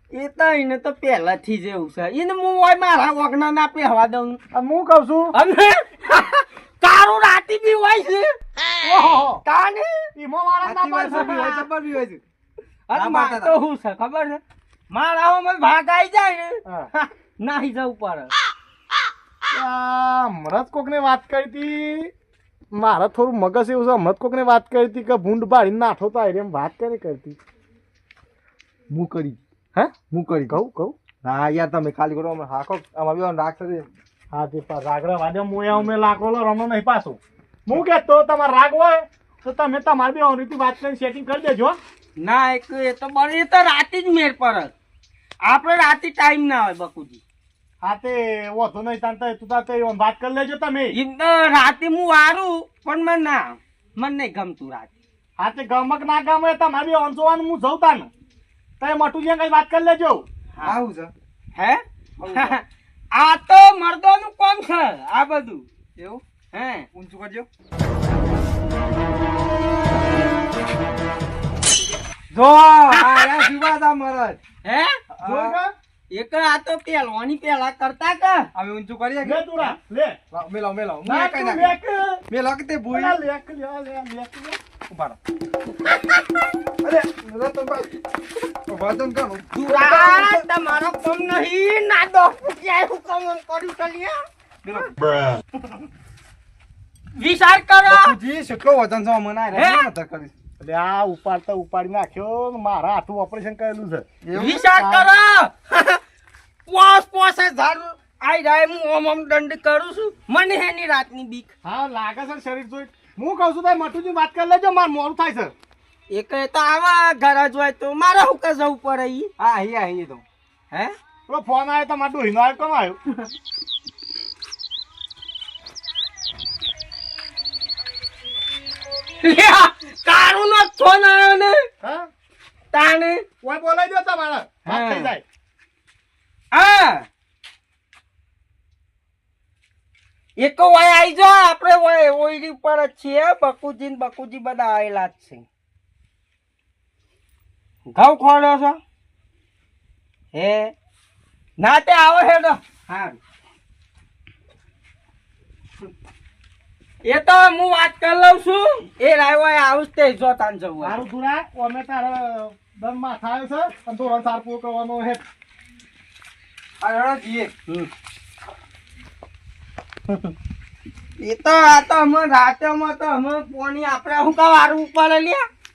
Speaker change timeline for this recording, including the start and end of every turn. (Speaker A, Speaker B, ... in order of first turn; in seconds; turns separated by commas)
Speaker A: 0.1-4.4, Speaker B: 4.5-5.3, Speaker A: 5.3-8.3, Speaker B: 8.8-9.4, Speaker A: 9.4-10.1, Speaker B: 10.1-11.7, Speaker C: 10.6-12.2, Speaker A: 11.1-11.6, Speaker A: 12.9-18.3, Speaker C: 12.9-13.6, Speaker B: 19.5-22.1, Speaker B: 22.7-27.4, Speaker C: 28.9-29.4, Speaker B: 29.0-31.0, Speaker C: 30.1-30.6, Speaker C: 31.2-33.9, Speaker B: 34.3-41.8, Speaker A: 42.2-44.7, Speaker A: 45.4-47.2, Speaker B: 47.8-50.9, Speaker A: 50.9-54.9, Speaker B: 55.4-58.1, Speaker B: 58.8-60.2, Speaker C: 60.6-61.1, Speaker A: 61.5-62.6, Speaker C: 62.2-62.6, Speaker A: 63.1-65.7, Speaker C: 66.0-66.2, Speaker A: 66.5-66.9, Speaker C: 66.9-67.5, Speaker A: 72.3-73.4, Speaker C: 72.9-74.4, Speaker A: 74.6-75.0, Speaker C: 75.2-75.6, Speaker B: 75.2-75.7, Speaker A: 76.1-78.5, Speaker C: 78.5-79.8, Speaker B: 79.2-80.2, Speaker C: 80.3-81.8, Speaker B: 81.0-82.2, Speaker C: 82.3-83.2, Speaker B: 82.9-84.6, Speaker C: 84.9-85.2, Speaker C: 86.8-88.0, Speaker C: 88.7-90.4, Speaker A: 89.5-94.2, Speaker C: 94.6-94.9, Speaker A: 97.1-98.2, Speaker C: 97.8-100.3, Speaker A: 99.5-99.9, Speaker B: 100.6-104.1, Speaker C: 104.2-104.7, Speaker A: 104.3-106.0, Speaker B: 104.7-105.1, Speaker A: 106.7-111.5, Speaker B: 111.6-115.5, Speaker A: 116.1-119.3, Speaker C: 119.4-120.2, Speaker B: 121.3-123.0, Speaker A: 129.2-131.6, Speaker B: 131.8-132.1, Speaker A: 132.7-133.2, Speaker B: 133.4-135.2, Speaker A: 134.7-135.1, Speaker A: 136.5-137.1, Speaker A: 140.4-145.4, Speaker A: 147.9-148.8, Speaker A: 150.3-150.7, Speaker A: 151.6-153.2, Speaker A: 157.0-161.0, Speaker B: 160.8-165.2, Speaker C: 166.8-167.5, Speaker A: 171.2-175.5